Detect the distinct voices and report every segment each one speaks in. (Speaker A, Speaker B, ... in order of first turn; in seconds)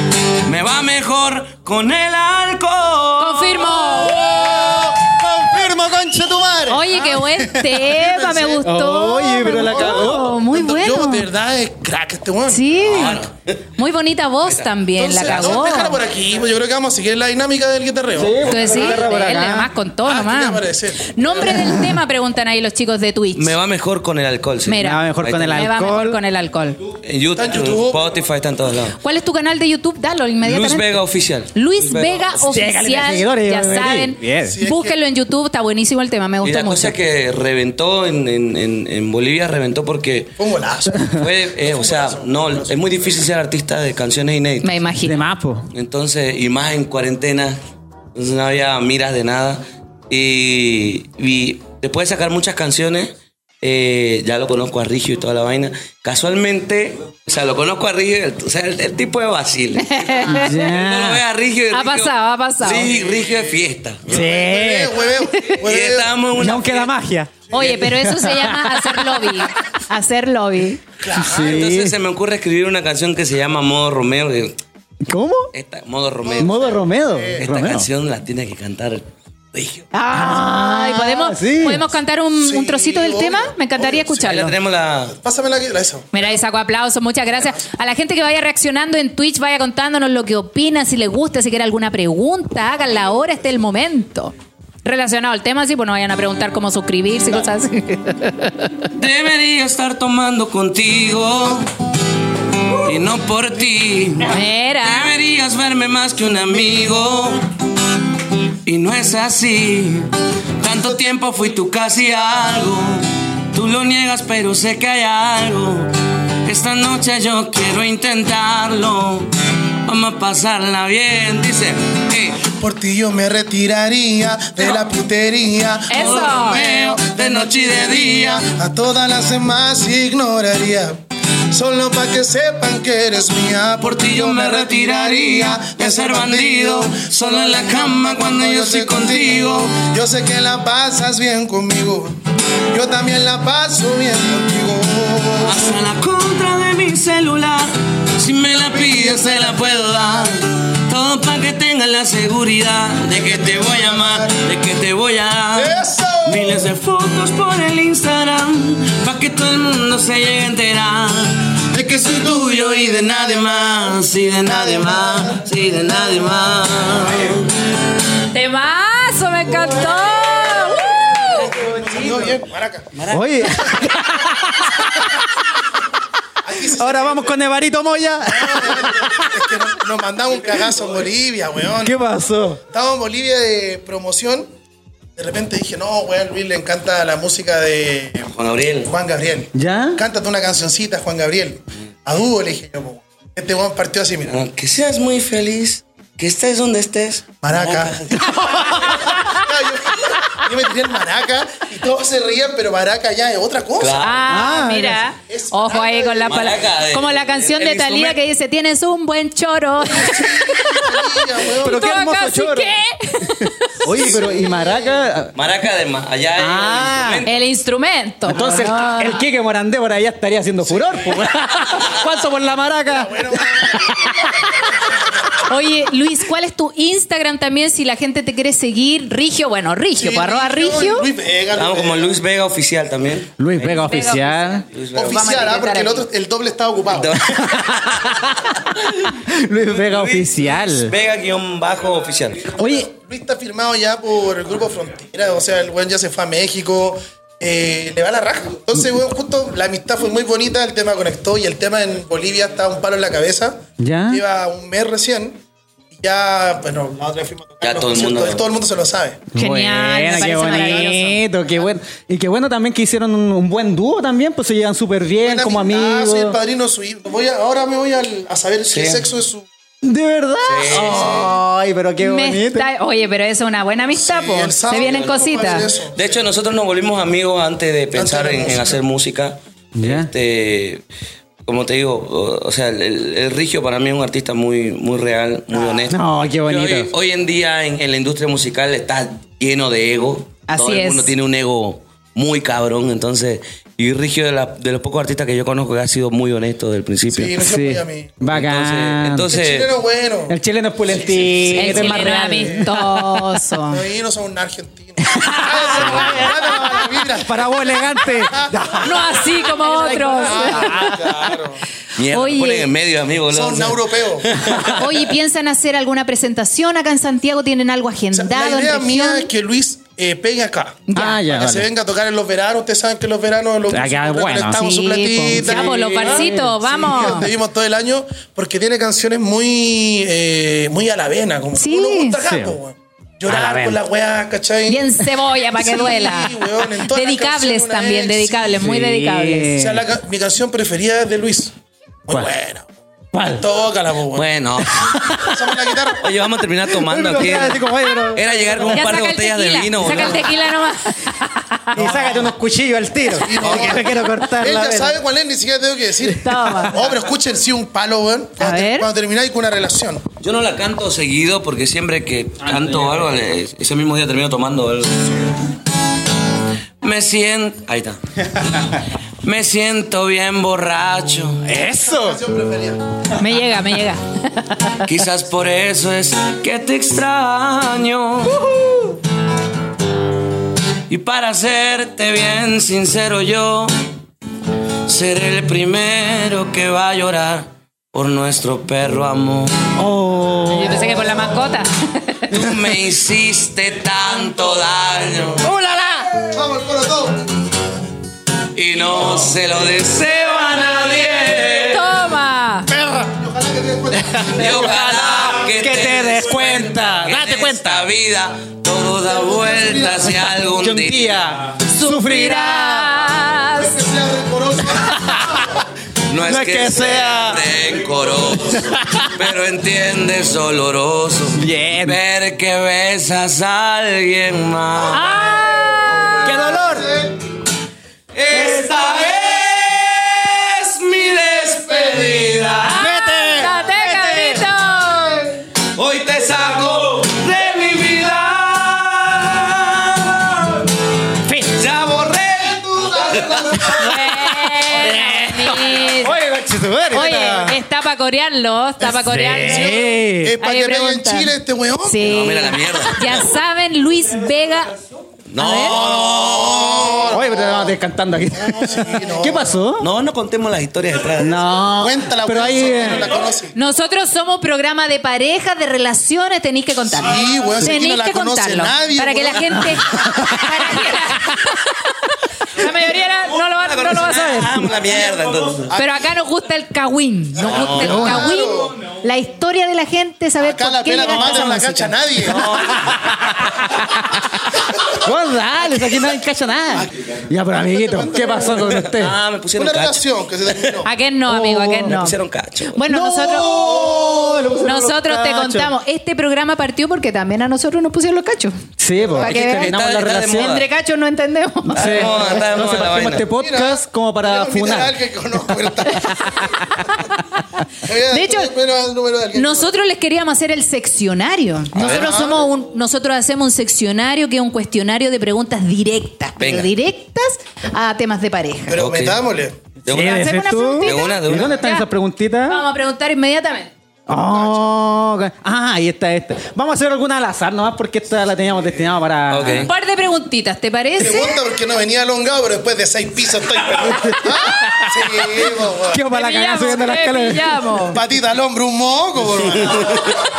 Speaker A: 0.4-4.0, 12.8-13.6, 15.2-15.6, 23.4-25.7, 27.0-29.0, 30.4-32.5, 36.4-40.4, 41.0-44.8, 45.7-47.6, 48.1-64.3, 65.4-66.9, 71.2-74.6, 75.5-76.8, 77.4-79.8, 84.2-85.2, 98.9-101.7, 102.7-107.4, 108.7-115.9, 116.4-119.3, 119.8-122.5, 125.9-128.5, 133.8-139.8, 145.4-167.5, 172.9-173.9, 188.3-188.9, 194.3-198.4, 203.8-204.2, 206.2-208.2, 215.3-217.5, 231.5-234.1, 234.7-235.5, 236.9-238.9, 239.7-242.6, 257.6-258.4, 268.7-269.1, 270.4-271.3, 274.7-280.8, 281.5-297.4, 298.3-299.7, 301.6-302.0, 312.0-315.0, 344.1-344.9, 346.0-350.4, 353.4-353.8, 360.2-365.3, 366.8-368.0, 369.2-371.4, 374.8-378.4, 380.9-383.7, 384.9-389.7, 392.3-395.4, 398.5-401.9, 404.3-411.2, 416.1-425.1, 428.1-432.8, 435.7-440.8, 441.4-443.8, 452.0-453.3, 455.3-457.1, 459.8-461.4, 473.3-475.8, 477.4-478.1, 482.2-483.1, 488.7-490.8, 491.9-492.8, 499.2-500.7, 501.7-503.3, 511.8-512.4, 516.4-516.7, 518.7-519.2, 519.9-520.3, 520.8-521.6, 529.3-529.7
Speaker B: 3.2-4.2, 6.7-11.3, 12.5-13.2, 13.8-16.0, 18.4-23.6, 24.6-26.8, 29.0-31.0, 31.5-37.0, 44.6-45.2, 59.8-60.7, 61.7-62.9, 67.5-70.8, 79.9-84.5, 86.1-94.3, 94.8-98.9, 104.2-105.1, 125.9-126.6, 168.2-171.5, 204.0-213.9, 217.3-219.2, 225.4-231.1, 233.9-236.1, 259.4-261.2, 272.0-275.7, 290.5-291.1, 301.6-303.9, 308.8-310.9, 312.1-312.7, 314.7-319.3, 320.9-321.2, 324.5-327.3, 331.6-332.2, 334.7-339.5, 348.6-351.8, 356.1-356.9, 358.4-358.9, 373.2-374.8, 390.5-392.4, 401.6-402.7, 411.7-413.8, 424.9-426.4, 432.6-435.4, 443.7-446.2, 446.9-449.8, 450.4-454.8, 455.4-455.8, 463.5-474.8, 475.7-481.9, 490.8-492.2, 492.7-493.9, 494.6-498.6, 499.1-499.7, 500.3-502.3, 508.1-508.5, 509.3-518.8, 519.9-521.9, 522.5-523.7, 529.7-531.4, 536.1-538.0
Speaker C: 3.8-8.7, 9.7-12.7, 15.0-19.0, 20.0-21.8, 27.4-28.0, 34.5-35.0, 40.4-43.2, 62.9-63.5, 64.1-66.1, 67.5-67.8, 71.0-71.6, 76.2-77.4, 82.4-84.2, 85.1-86.4, 122.5-145.8, 148.6-150.4, 153.1-154.3, 155.6-156.7, 162.1-165.4, 171.2-172.9, 176.4-177.5, 178.2-182.0, 182.7-184.5, 185.2-188.3, 188.9-194.4, 197.4-204.1, 205.3-206.6, 209.9-212.0, 213.9-215.1, 220.7-221.2, 222.9-225.4, 229.9-232.2, 234.9-237.2, 242.6-255.4, 255.9-259.2, 260.2-261.0, 265.2-269.5, 270.7-271.3, 273.9-276.2, 277.9-278.8, 285.5-285.9, 297.1-298.2, 299.3-300.4, 300.9-302.6, 303.7-308.9, 310.1-311.6, 313.3-314.4, 318.1-334.9, 335.5-338.7, 339.6-341.5, 342.1-342.7, 343.4-344.3, 345.1-346.1, 351.8-352.3, 353.1-360.1, 371.8-372.8, 396.3-397.3, 403.1-405.0, 409.1-410.3, 413.5-415.6, 425.4-427.2, 442.7-444.0, 449.4-452.1, 455.6-457.8, 458.4-459.6, 461.8-463.5, 466.9-469.8, 475.7-475.9, 477.4-478.7, 480.4-482.8, 487.5-488.9, 489.6-490.9, 502.3-502.6, 503.3-507.1, 507.8-509.7, 511.8-512.4, 518.7-519.6, 524.2-524.8, 531.0-536.0, 537.9-540.2
Speaker D: 8.6-10.3, 18.2-19.7, 24.8-26.2, 32.4-34.6, 45.0-45.7, 60.3-61.2, 64.1-65.0, 66.4-69.4, 71.2-72.0, 75.0-75.5, 76.4-77.9, 80.1-81.9, 173.1-175.0, 176.7-179.7, 181.8-182.6, 189.5-190.0, 204.3-205.0, 211.6-212.7, 213.8-215.3, 216.4-217.3, 218.3-224.5, 233.4-234.7, 237.4-240.9, 242.6-242.9, 253.8-254.2, 259.3-266.4, 269.8-272.7, 279.8-280.1, 285.9-286.9, 297.4-299.3, 300.3-303.3, 305.0-311.4, 320.9-321.7, 323.7-324.6, 325.3-326.6, 332.2-332.6, 333.3-333.8, 338.6-339.9, 343.1-343.5, 344.6-345.5, 346.7-348.9, 351.7-355.0, 371.4-372.2, 378.4-378.9, 389.8-391.1, 395.4-396.2, 402.7-403.1, 404.0-407.9, 410.5-412.9, 414.8-415.5, 416.2-417.4, 418.5-419.1, 421.4-422.0, 426.2-426.9, 432.8-434.4, 441.3-441.6, 444.6-447.6, 448.8-450.4, 457.1-459.9, 461.2-463.1, 470.0-470.4, 477.8-478.2, 482.8-484.2, 485.0-489.1, 491.3-492.0, 492.9-495.7, 498.8-500.6, 501.7-504.9, 519.9-522.6, 524.1-529.7, 533.8-535.3, 535.9-538.0